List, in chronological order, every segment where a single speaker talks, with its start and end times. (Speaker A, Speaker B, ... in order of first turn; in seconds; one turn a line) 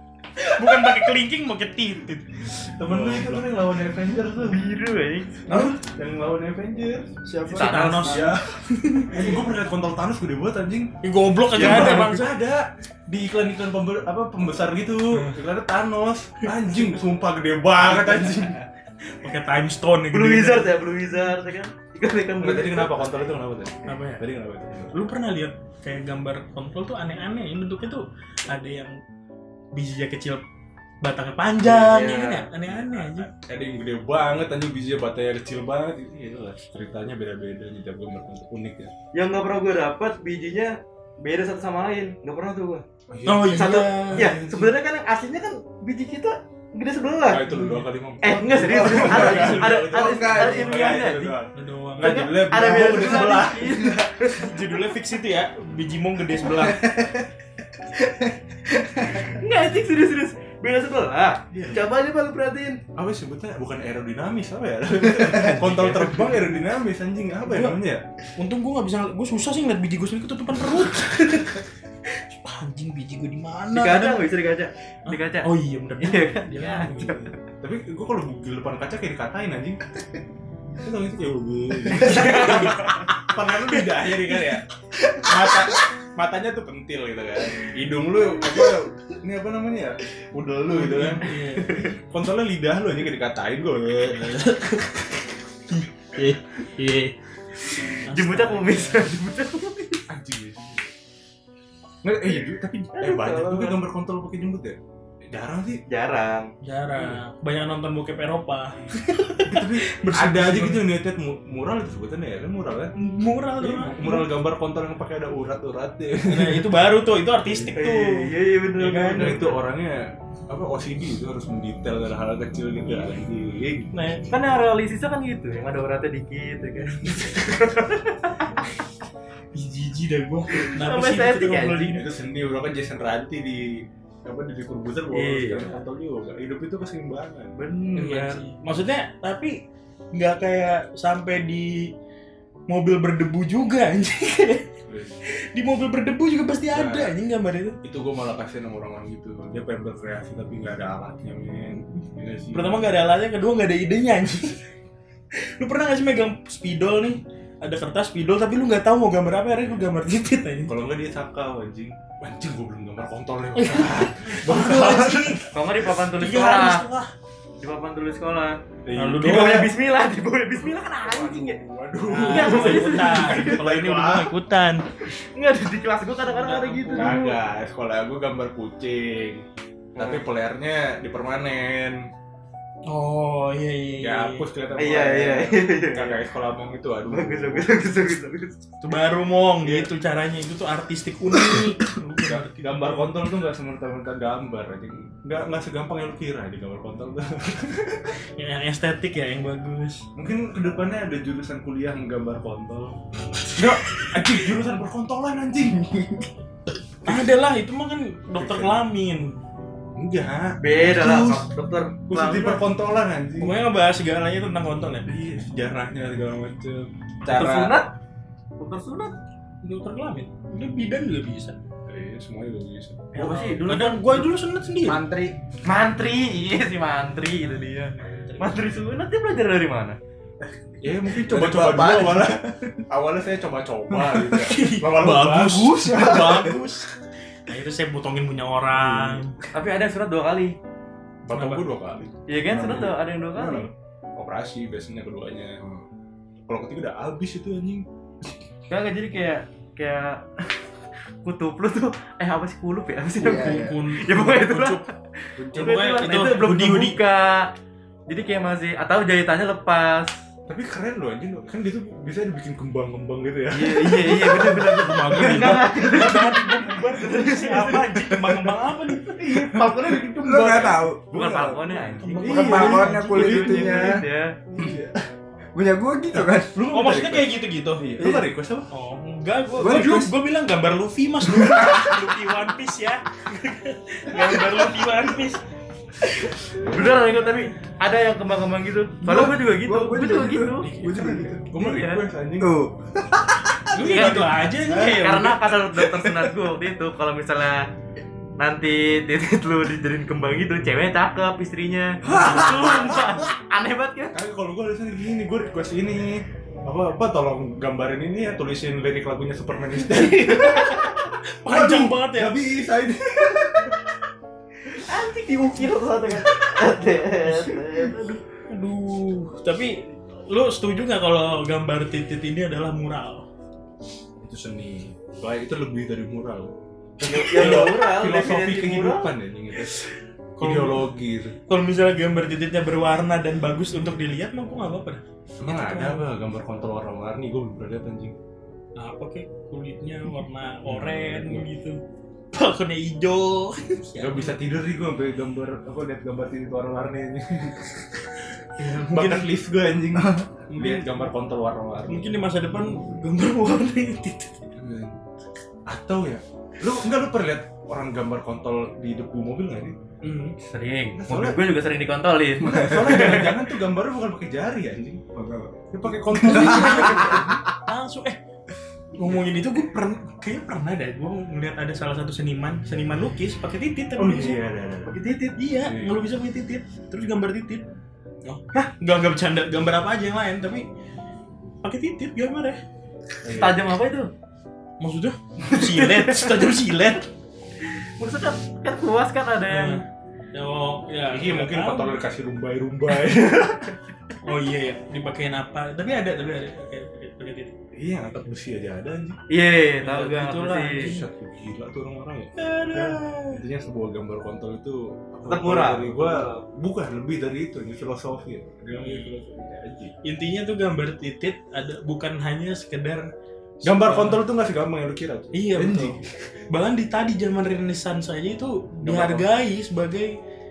Speaker A: 0.4-3.4
Speaker B: 2.8-4.6
Speaker C: 4.4-5.5
Speaker B: 5.5-7.1
Speaker A: 5.5-5.7
Speaker D: 7.2-8.4
Speaker C: 7.5-8.3
Speaker A: 7.5-9.2
Speaker B: 8.0-8.5
Speaker B: 9.1-10.9
Speaker A: 11.0-12.3
Speaker B: 11.5-18.6
Speaker C: 11.5-12.0
Speaker A: 15.1-15.4
Speaker A: 19.2-20.7
Speaker C: 20.1-23.1
Speaker B: 22.4-25.0
Speaker A: 23.9-24.2
Speaker A: 24.9-28.9
Speaker A: 29.7-30.4
Speaker A: 31.0-33.3
Speaker C: 31.6-32.5
Speaker B: 32.6-38.9
Speaker C: 39.1-42.8
Speaker B: 43.1-44.8
Speaker A: 43.2-44.3
Speaker C: 43.5-47.4
Speaker B: 47.2-53.6
Speaker A: 47.5-47.9
Speaker C: 48.2-51.4
Speaker D: 48.5-51.0
Speaker A: 48.9-49.9
Speaker A: 51.5-53.6
Speaker C: 52.0-54.4
Speaker D: 52.6-53.0
Speaker D: 53.6-54.0
Speaker A: 54.3-57.0
Speaker D: 56.6-57.2
Speaker D: 57.8-59.3
Speaker C: 59.2-62.8
Speaker A: 61.5-61.8
Speaker B: 62.9-68.0
Speaker C: 65.5-66.3
Speaker A: 67.5-67.8
Speaker A: 68.4-74.2
Speaker C: 73.7-77.3
Speaker A: 75.1-77.3
Speaker B: 77.6-79.8
Speaker B: 80.8-84.6
Speaker C: 82.0-83.0
Speaker A: 82.0-82.7
Speaker B: 85.2-94.4
Speaker A: 90.7-91.8
Speaker C: 91.5-91.9
Speaker A: 94.1-95.0
Speaker A: 95.7-97.1
Speaker A: 97.7-99.1
Speaker C: 97.9-100.0
Speaker B: 100.1-100.9
Speaker B: 102.0-104.8
Speaker C: 102.9-103.8
Speaker B: 105.3-105.8
Speaker C: 105.9-106.5
Speaker A: 106.6-110.8
Speaker B: 109.5-112.9
Speaker A: 113.0-114.3
Speaker B: 113.6-116.7
Speaker A: 116.3-118.3
Speaker C: 117.7-119.6
Speaker A: 118.8-119.3
Speaker B: 118.8-124.0
Speaker A: 123.9-124.3
Speaker C: 124.3-128.4
Speaker A: 129.5-132.0
Speaker C: 130.6-132.0
Speaker B: 131.9-137.6
Speaker C: 135.1-135.8
Speaker C: 137.6-138.4
Speaker A: 137.9-139.6
Speaker A: 140.1-141.9
Speaker A: 142.7-144.7
Speaker B: 144.9-145.2
Speaker A: 145.3-147.8
Speaker B: 146.7-147.1
Speaker B: 147.8-152.9
Speaker A: 152.5-154.6
Speaker A: 155.6-160.8
Speaker B: 160.7-165.5
Speaker A: 163.5-165.5
Speaker C: 165.5-166.8
Speaker A: 166.1-167.1
Speaker C: 167.6-168.6
Speaker B: 168.8-169.7
Speaker A: 168.9-169.7
Speaker C: 169.2-171.6
Speaker B: 171.0-174.3
Speaker A: 172.0-174.8
Speaker C: 172.2-173.6
Speaker C: 175.1-177.4
Speaker A: 176.3-177.2
Speaker B: 176.9-182.0
Speaker C: 180.0-180.2
Speaker A: 182.9-184.4
Speaker B: 184.0-187.8
Speaker C: 184.8-186.2
Speaker C: 187.1-188.6
Speaker A: 188.8-193.2
Speaker B: 189.6-189.9
Speaker B: 192.2-198.2
Speaker A: 198.3-200.0
Speaker B: 200.2-203.0
Speaker B: 203.5-206.0
Speaker A: 203.9-204.2
Speaker A: 207.0-209.4
Speaker B: 208.3-208.8
Speaker B: 209.9-211.4
Speaker C: 210.6-212.7
Speaker B: 212.1-213.5
Speaker A: 213.4-215.1
Speaker B: 215.1-217.8
Speaker C: 217.2-217.9
Speaker A: 217.3-217.7
Speaker C: 218.6-219.2
Speaker A: 219.6-221.6
Speaker B: 221.9-223.5
Speaker C: 223.1-224.3
Speaker A: 223.2-225.0
Speaker D: 224.8-225.4
Speaker C: 225.6-230.0
Speaker A: 227.9-228.7
Speaker B: 230.8-236.4
Speaker D: 231.1-232.8
Speaker A: 234.3-236.9
Speaker D: 235.5-236.6
Speaker A: 237.5-239.3
Speaker B: 238.7-239.2
Speaker C: 239.5-240.6
Speaker B: 241.2-245.8
Speaker A: 241.3-241.7
Speaker C: 242.3-243.7
Speaker B: 246.4-248.4
Speaker C: 248.7-250.4
Speaker C: 251.2-254.9
Speaker D: 253.2-253.8
Speaker A: 253.2-254.8
Speaker B: 255.4-256.0
Speaker A: 255.5-257.0
Speaker C: 255.5-257.5
Speaker C: 258.1-260.1
Speaker B: 260.5-265.8
Speaker C: 263.5-267.9
Speaker A: 264.3-269.5
Speaker D: 265.2-265.7
Speaker D: 267.9-268.5
Speaker B: 269.1-271.3
Speaker D: 269.2-271.6
Speaker C: 271.0-274.4
Speaker A: 272.0-273.2
Speaker B: 272.2-275.0
Speaker D: 272.2-274.0
Speaker D: 275.5-276.6
Speaker B: 276.5-278.7
Speaker A: 276.7-277.8
Speaker D: 278.0-278.3
Speaker A: 278.7-285.4
Speaker D: 279.5-280.1
Speaker D: 281.2-282.1
Speaker D: 284.1-284.7
Speaker A: 286.0-286.6
Speaker C: 286.6-290.7
Speaker D: 289.0-291.4
Speaker A: 290.6-291.4
Speaker B: 291.1-292.6
Speaker C: 291.5-292.0
Speaker D: 292.4-293.9
Speaker A: 293.7-295.5
Speaker B: 293.7-294.4
Speaker C: 293.9-297.6
Speaker D: 295.8-296.4
Speaker C: 298.4-304.1
Speaker A: 302.1-302.8
Speaker D: 302.1-302.9
Speaker B: 304.1-310.9
Speaker C: 309.9-311.0
Speaker A: 311.4-312.4
Speaker B: 311.4-313.7
Speaker C: 314.8-318.2
Speaker A: 318.5-323.2
Speaker B: 324.2-329.9
Speaker C: 327.0-329.1
Speaker A: 330.4-330.9
Speaker B: 330.4-331.3
Speaker A: 331.5-336.1
Speaker B: 335.4-338.1
Speaker A: 338.8-341.8
Speaker B: 340.6-341.5
Speaker A: 342.3-344.4
Speaker B: 343.9-347.8
Speaker A: 348.6-349.3
Speaker B: 348.9-352.1
Speaker A: 350.5-350.9
Speaker A: 351.9-354.5
Speaker B: 354.6-355.0
Speaker B: 355.7-359.8
Speaker A: 360.0-360.4
Speaker C: 360.4-363.4
Speaker B: 360.9-361.5
Speaker B: 362.4-365.0
Speaker D: 362.4-363.2
Speaker D: 365.2-365.6
Speaker B: 365.7-367.3
Speaker D: 366.1-367.4
Speaker A: 366.1-368.2
Speaker A: 369.0-374.4
Speaker B: 374.0-375.0
Speaker C: 374.9-375.4
Speaker A: 375.4-377.7
Speaker B: 375.6-375.9
Speaker A: 378.2-380.6
Speaker A: 381.6-382.6
Speaker B: 383.2-383.7
Speaker C: 383.3-384.1
Speaker A: 384.8-387.1
Speaker C: 385.5-386.5
Speaker C: 388.0-389.8
Speaker A: 389.5-389.8
Speaker A: 390.3-391.9
Speaker B: 391.1-393.8
Speaker A: 394.2-397.5
Speaker B: 397.8-399.2
Speaker C: 399.3-400.9
Speaker A: 399.8-401.0
Speaker B: 400.8-409.9
Speaker A: 402.4-403.4
Speaker C: 405.3-406.4
Speaker A: 408.8-409.1
Speaker A: 410.0-413.1
Speaker A: 413.6-414.2
Speaker B: 413.6-416.0
Speaker A: 415.3-416.0
Speaker A: 416.5-420.1
Speaker B: 418.8-419.3